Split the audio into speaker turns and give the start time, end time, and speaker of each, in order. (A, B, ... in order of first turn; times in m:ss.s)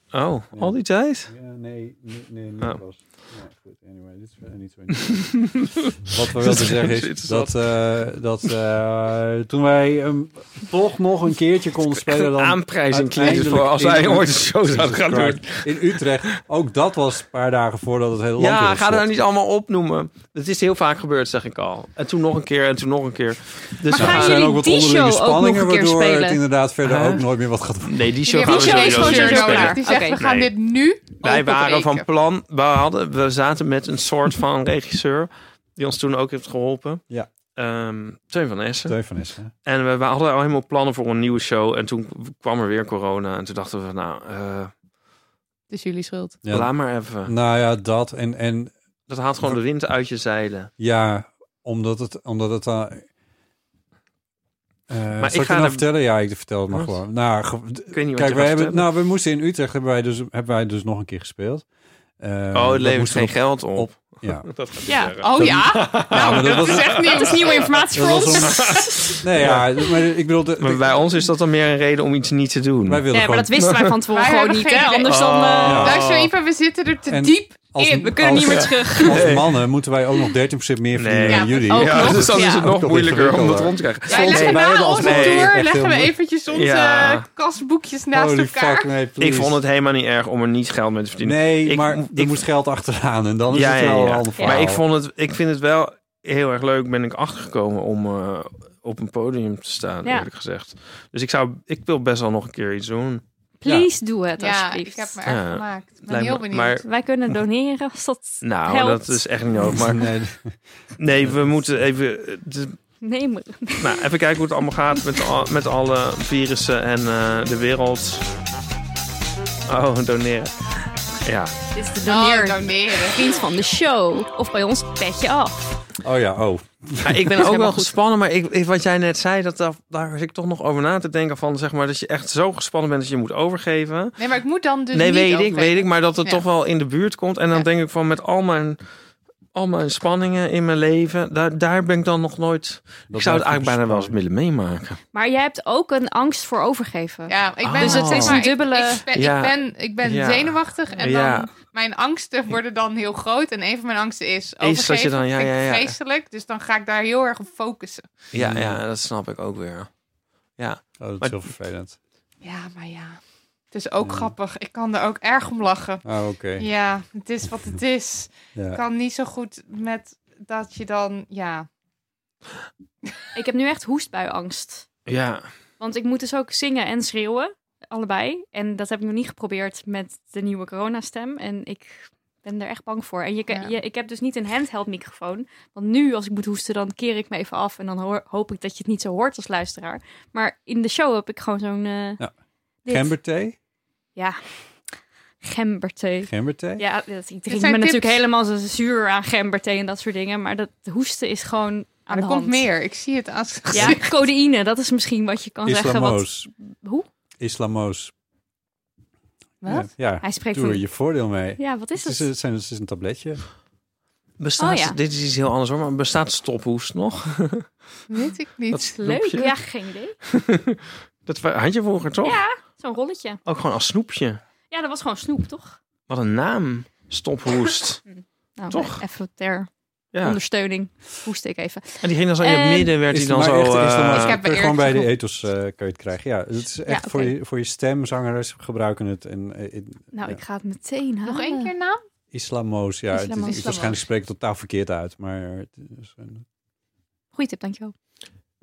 0:00.1-0:01.3 A
0:00.5-0:19.1 B
0:05.1-0:05.7 A
0:06.4-0:07.8 A
0:12.0-0:16.4 A
0:18.4-0:24.5 A
0:23.9-0:26.4 C
0:23.9-0:28.2 B
0:26.8-0:27.2 A
0:27.8-0:30.5 A
0:28.3-0:32.1 D
0:28.4-0:30.2 C
0:31.2-0:37.0 A
0:37.6-0:39.0 A
0:38.9-0:39.5 B
0:39.6-0:44.7 A
0:45.7-0:46.4 D
0:46.4-0:48.7 B
0:46.5-0:47.3 A
0:49.1-0:50.7 A
0:50.8-0:53.1 B
0:54.9-1:01.7 B
0:55.2-0:55.9 A
0:57.9-0:58.8 A
1:02.2-1:04.6 B
1:02.5-1:07.7 A
1:04.9-1:05.1 C
1:05.2-1:07.7 D
1:05.4-1:07.1 B
1:07.0-1:09.2 C
1:07.9-1:11.2 B
1:08.5-1:09.7 A
1:10.6-1:13.9 A
1:12.9-1:13.5 B
1:13.1-1:15.9 C
1:14.1-1:18.3 D
1:15.0-1:16.3 A
1:15.6-1:16.0 B
1:17.1-1:26.1 B
1:18.0-1:19.3 C
1:18.5-1:19.5 A
1:21.0-1:25.5 A
1:21.3-1:22.0 D
1:21.7-1:22.7 C
1:24.1-1:28.9 D
1:26.5-1:27.2 A
1:28.1-1:29.6 B
1:29.2-1:32.4 A
1:31.2-1:34.8 B
1:33.5-1:43.2 A
1:43.6-1:45.2 C
1:44.4-1:46.8 D
1:45.3-1:46.8 A
1:46.8-1:49.2 C
1:48.4-1:50.2 A
1:49.7-1:50.6 B
1:51.0-1:52.8 A
1:53.0-1:54.0 C
1:53.8-1:58.2 A
1:59.7-2:00.7 A
2:01.2-2:01.5 A
2:01.7-2:05.6 C
2:02.0-2:03.3 D
2:06.0-2:07.3 B
2:07.0-2:14.2 A
2:07.3-2:07.9 C
2:14.2-2:16.4 D
2:14.9-2:18.8 A
2:19.6-2:25.0 A
2:23.1-2:24.2 B
2:25.1-2:29.1 C
2:27.3-2:38.1 D
2:27.6-2:28.4 A
2:29.1-2:31.5 A
2:34.6-2:36.0 A
2:38.3-2:39.9 A
2:38.3-2:38.8 B
2:40.6-2:41.4 A
2:41.0-2:42.0 B
2:42.4-2:43.2 D
2:43.7-2:46.0 D
2:44.0-2:44.3 B
2:46.0-2:46.7 B
2:46.6-2:51.7 D
2:48.6-2:48.8 B
2:53.3-2:54.9 C
2:55.1-2:55.5 A
2:55.8-3:12.2 C
3:12.9-3:13.1 C
3:12.9-3:13.6 B
3:15.4-3:22.7 C
3:16.2-3:16.8 B
3:17.5-3:18.2 D
3:22.1-3:24.1 D
3:23.7-3:27.1 C
3:25.6-3:26.5 B
3:27.4-3:28.1 B
3:29.6-3:29.9 D
3:29.7-3:33.4 B
3:30.2-3:30.8 C
3:31.6-3:32.3 C
3:34.4-3:37.7 A
3:34.6-3:35.0 C
3:38.1-3:38.9 D
3:38.7-3:39.6 A
3:39.0-3:40.2 C
3:40.3-3:42.4 A
3:42.2-3:43.4 C
3:43.5-3:44.4 A
3:44.7-3:45.8 C
3:46.1-3:48.0 A
3:48.1-3:52.9 C
3:48.7-3:49.0 A
3:50.1-3:50.4 A
3:52.0-3:54.4 A
3:53.1-4:00.4 B
3:54.1-3:55.1 D
3:56.9-3:57.3 C
4:00.1-4:01.7 C
4:01.2-4:02.0 D
4:02.3-4:06.4 B
4:03.1-4:04.0 C
4:03.4-4:04.0 D
4:07.3-4:07.9 C